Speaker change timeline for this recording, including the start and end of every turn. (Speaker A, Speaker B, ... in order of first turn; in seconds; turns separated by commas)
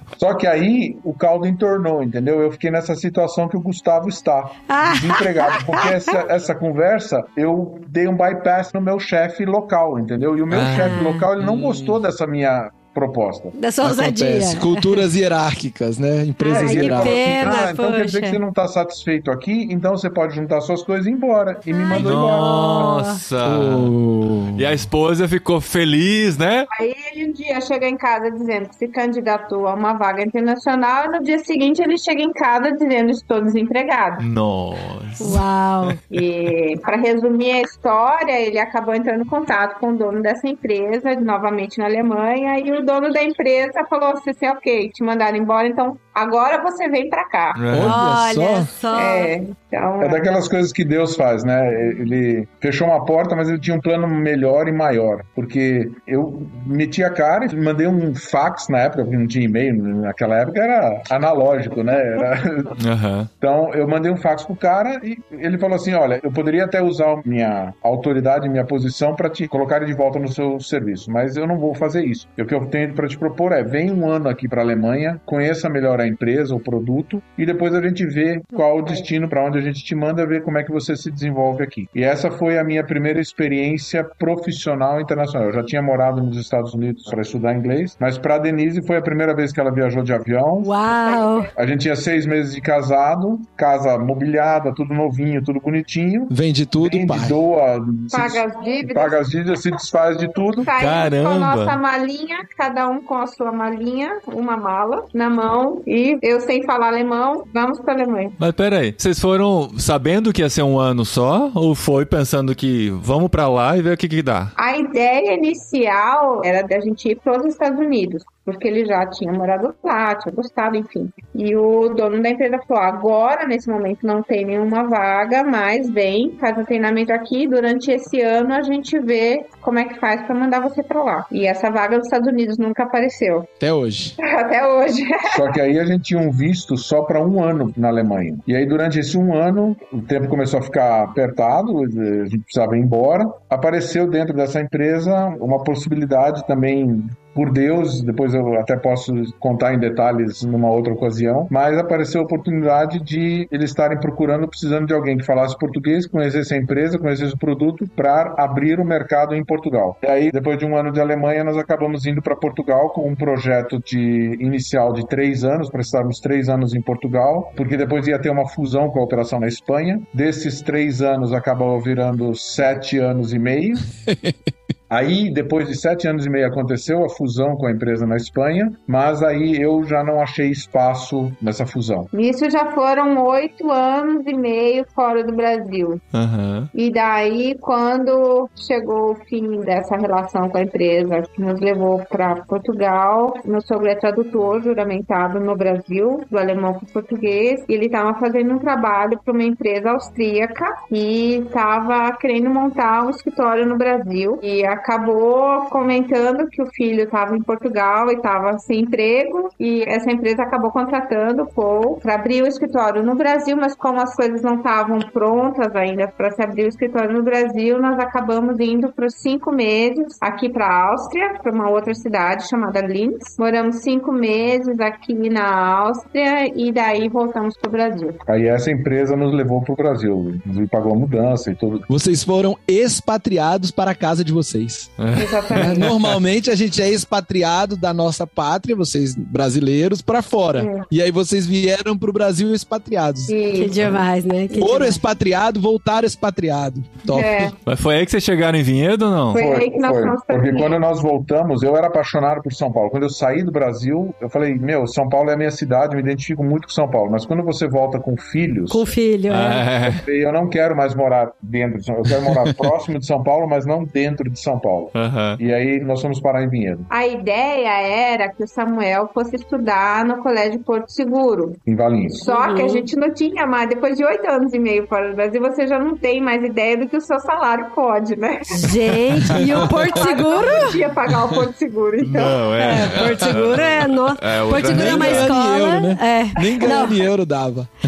Speaker A: 0.2-13.5, Speaker B: 4.7-6.1, Speaker C: 10.5-11.9, Speaker B: 10.7-11.2, Speaker B: 13.5-15.0, Speaker D: 13.8-17.4, Speaker B: 16.4-18.4, Speaker A: 16.5-22.9, Speaker B: 21.7-23.2, Speaker C: 21.9-23.9, Speaker D: 23.4-24.9, Speaker C: 24.5-26.7, Speaker E: 26.7-34.2, Speaker C: 34.2-35.4, Speaker B: 35.2-36.0, Speaker E: 36.1-47.6, Speaker C: 47.5-48.0, Speaker D: 47.7-48.7, Speaker B: 47.8-49.3, Speaker E: 48.9-50.2, Speaker A: 50.0-62.8, Speaker C: 62.8-63.3, Speaker A: 63.4-90.7, Speaker B: 90.6-91.5, Speaker E: 90.9-91.5, Speaker A: 91.5-100.7, Speaker D: 96.3-97.3, Speaker E: 98.1-99.2, Speaker E: 100.6-108.3, Speaker C: 100.7-101.8, Speaker C: 108.4-114.5, Speaker E: 114.6-133.5, Speaker D: 133.6-134.2, Speaker E: 134.2-135.5, Speaker A: 135.3-173.9, Speaker A: 174.9-182.1, Speaker E: 182.1-186.0, Speaker C: 186.1-186.7, Speaker E: 186.7-228.2, Speaker A: 228.2-231.8, Speaker D: 231.9-234.9, Speaker C: 235.0-236.2, Speaker E: 235.1-235.9, Speaker D: 235.5-243.3, Speaker E: 240.6-240.8, Speaker E: 243.3-244.0, Speaker B: 243.5-245.0, Speaker D: 244.6-247.5, Speaker E: 247.1-247.6, Speaker C: 247.6-249.4, Speaker E: 249.3-250.8, Speaker A: 249.3-258.9, Speaker B: 258.7-259.6, Speaker C: 259.3-260.0, Speaker A: 259.8-266.9, Speaker C: 264.9-265.4, Speaker E: 266.9-271.6, Speaker A: 271.6-272.3, Speaker E: 272.1-282.5, Speaker B: 272.2-272.9, Speaker B: 278.5-280.8, Speaker C: 282.0-285.3, Speaker B: 282.6-287.0, Speaker D: 284.6-287.7